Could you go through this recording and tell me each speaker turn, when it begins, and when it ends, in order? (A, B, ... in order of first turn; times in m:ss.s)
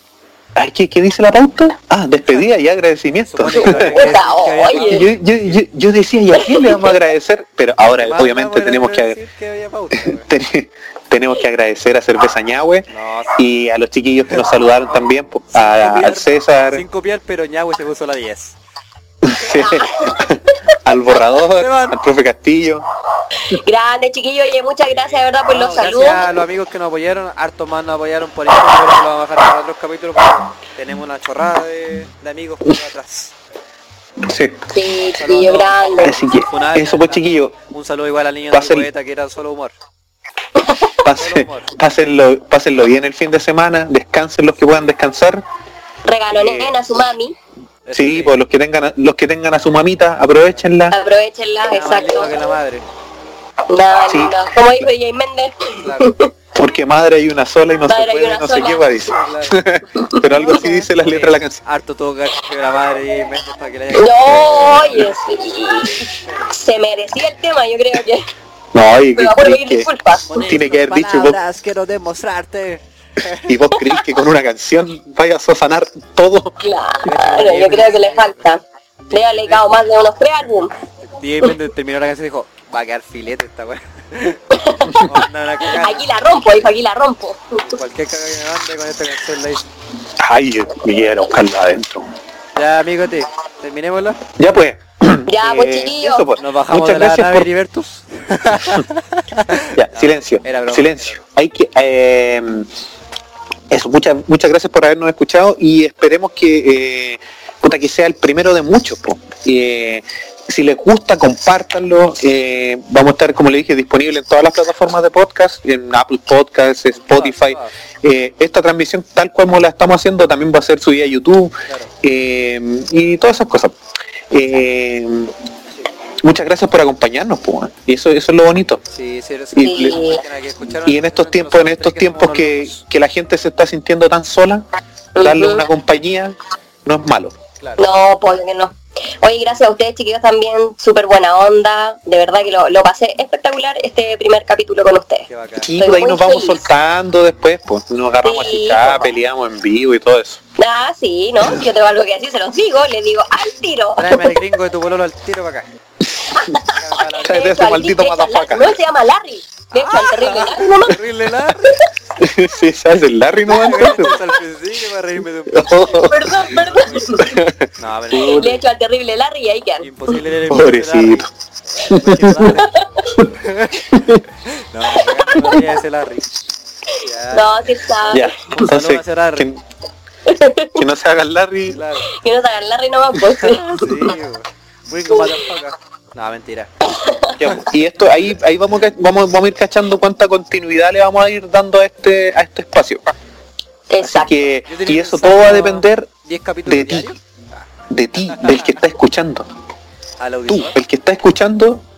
0:00.6-0:04.2 A
0:03.3-0:05.1 B
0:03.5-0:05.1 C
0:04.8-0:09.2 A
0:06.4-0:06.9 C
0:07.8-0:10.3 B
0:10.0-0:12.9 A
0:12.9-0:13.4 B
0:13.4-0:16.8 A
0:14.3-0:18.6 B
0:19.2-0:22.8 A
0:19.6-0:20.3 C
0:21.5-0:22.0 B
0:23.5-0:26.3 C
0:24.9-0:33.3 B
0:34.2-0:34.6 A
0:34.7-0:36.2 C
0:35.2-0:39.7 B
0:36.0-0:37.6 A
0:38.5-0:38.9 A
0:40.6-0:40.9 C
0:41.0-0:45.4 A
0:41.2-0:41.8 B
0:46.0-0:47.4 C
0:46.3-0:46.7 B
0:47.9-0:48.4 B
0:47.9-0:51.0 A
0:50.9-0:52.3 C
0:51.7-0:52.9 B
0:53.7-0:56.3 C
0:54.1-0:54.9 A
0:55.8-0:56.1 B
0:56.6-1:01.6 A
0:57.9-0:58.9 C
0:59.0-0:59.6 B
1:00.3-1:05.1 B
1:03.9-1:08.3 C
1:06.3-1:06.5 B
1:08.7-1:09.9 A
1:09.2-1:10.4 C
1:10.3-1:13.6 B
1:10.4-1:11.4 A
1:13.5-1:16.5 A
1:16.6-1:18.6 C
1:17.0-1:18.4 B
1:19.1-1:19.8 B
1:19.1-1:20.7 C
1:21.0-1:24.4 B
1:24.5-1:25.1 C
1:24.9-1:26.1 B
1:25.7-1:27.6 C
1:27.7-1:29.7 B
1:30.2-1:32.1 A
1:32.6-1:34.2 B
1:34.4-1:37.5 A
1:35.3-1:36.3 C
1:36.4-1:41.2 B
1:39.7-1:42.7 A
1:43.7-2:03.8 A
1:57.0-1:57.7 B
2:01.7-2:01.9 B
2:04.3-2:05.3 A
2:06.2-2:08.8 A
2:08.9-2:12.8 B
2:09.6-2:10.0 A
2:09.6-2:10.2 C
2:10.9-2:14.7 A
2:15.2-2:15.7 C
2:15.2-2:17.4 A
2:17.8-2:25.3 C
2:25.3-2:25.7 B
2:25.6-2:30.4 A
2:25.8-2:26.7 C
2:28.2-2:29.1 C
2:30.6-2:34.4 C
2:34.0-2:35.7 B
2:36.4-2:41.0 C
2:36.7-2:37.6 B
2:37.3-2:38.8 A
2:39.7-2:41.8 B
2:42.2-2:44.2 A
2:43.5-2:47.2 B
2:45.5-2:46.6 A
2:46.1-2:47.3 C
2:47.2-2:47.7 A
2:47.8-2:48.6 B
2:48.1-2:49.9 C
2:49.8-2:51.3 B
2:50.5-2:51.3 A
2:51.8-2:52.8 B
2:51.9-2:52.5 A
2:52.6-2:53.1 C
2:53.3-2:56.3 B
2:53.9-2:54.2 A
2:56.9-2:57.8 B
2:57.3-2:58.4 C
2:58.1-2:59.6 A
2:58.5-2:59.5 B
3:00.3-3:00.8 C
3:00.8-3:01.8 A
3:01.7-3:02.1 B
3:02.1-3:04.1 C
3:03.3-3:06.7 B
3:07.0-3:07.4 C
3:07.4-3:13.0 A
3:13.9-3:14.4 C
3:14.0-3:16.1 A
3:14.6-3:17.7 B
3:16.7-3:17.1 A
3:17.9-3:19.5 A
3:18.3-3:18.8 B
3:20.2-3:20.8 B
3:20.5-3:21.8 A